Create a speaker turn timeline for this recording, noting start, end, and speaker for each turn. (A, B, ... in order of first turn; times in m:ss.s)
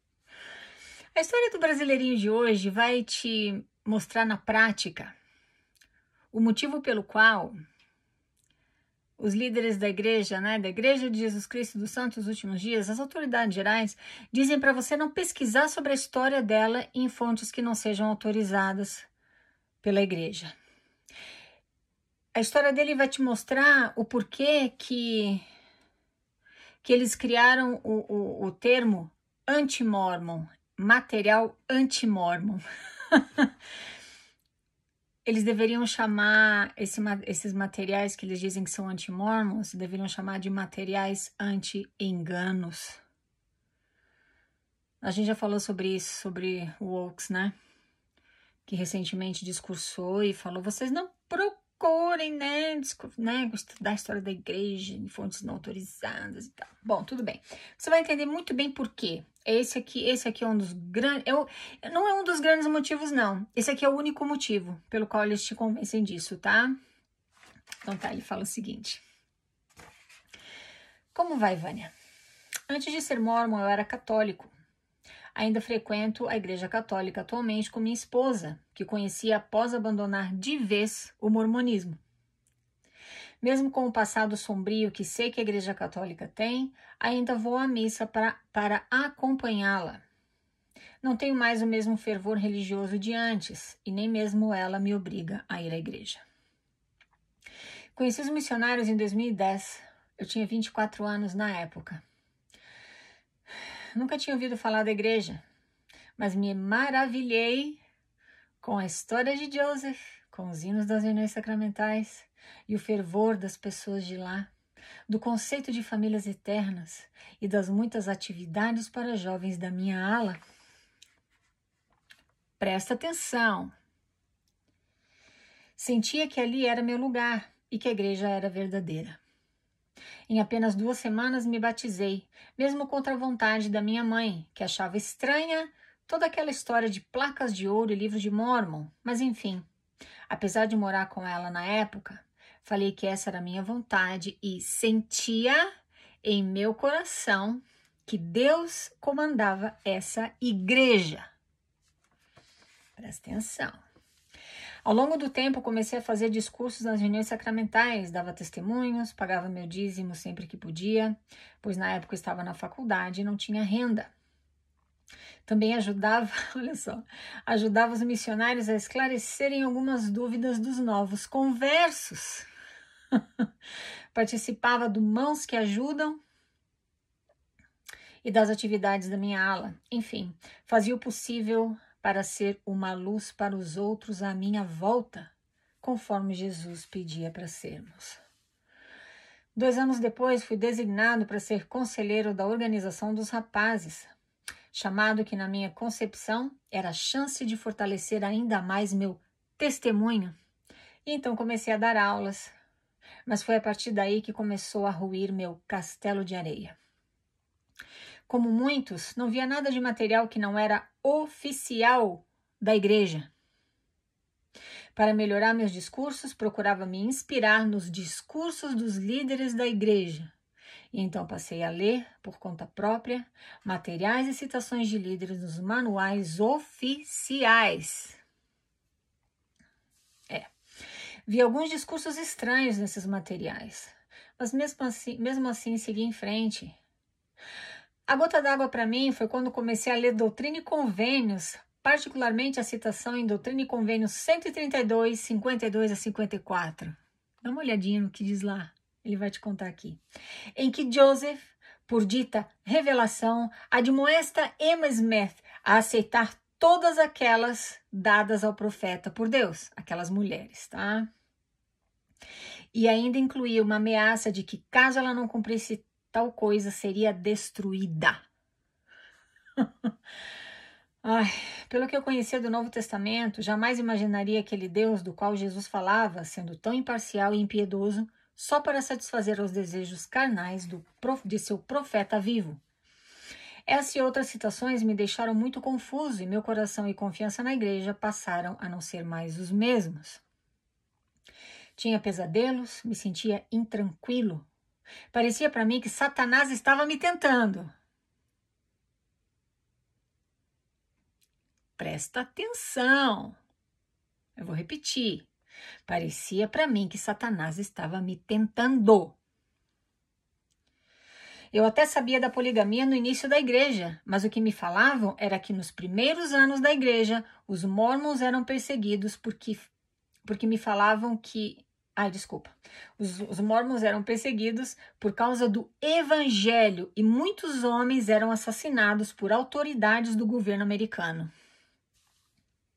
0:01.2-0:05.1 A
0:06.3-0:07.6 A
0:09.2-0:19.1 A
0:19.8-0:20.6 A
0:22.3-0:25.4 A
0:26.8-0:33.4 A
0:35.2-0:43.0 A
0:45.0-0:47.6 A
0:48.7-1:06.8 A
1:07.8-1:09.0 A
1:11.1-1:11.9 A
1:12.7-1:14.5 A
1:15.4-1:22.0 A
1:23.4-1:30.0 A
1:31.0-1:36.2 A
1:37.9-1:42.0 A
1:44.0-1:45.4 A
1:46.2-1:47.8 A
1:48.6-1:54.5 A
1:55.1-2:00.4 A
2:02.6-2:03.7 A
2:05.8-2:09.2 A
2:10.3-2:19.7 A
2:20.3-2:25.7 A
2:26.2-2:31.3 A
2:33.0-2:33.8 A
2:34.8-2:44.1 A
2:45.5-2:52.5 A
2:54.1-2:56.2 A
2:58.2-3:05.3 A
3:05.8-3:08.2 A
3:09.6-3:14.1 A
3:14.7-3:20.4 A
3:21.0-3:22.5 A
3:23.3-3:26.8 A
3:28.3-3:33.3 A
3:35.0-3:40.3 A
3:40.9-3:48.2 A
3:51.3-3:56.8 A
3:58.1-4:10.0 A
4:10.6-4:21.1 A
4:22.7-4:28.2 A
4:31.0-4:42.6 A
4:43.7-4:50.2 A
4:51.8-4:54.5 A
4:55.1-4:57.7 A
5:01.8-5:03.4 A
5:04.4-5:05.3 A
5:05.9-5:09.2 A
5:11.5-5:19.7 A
5:20.2-5:31.3 A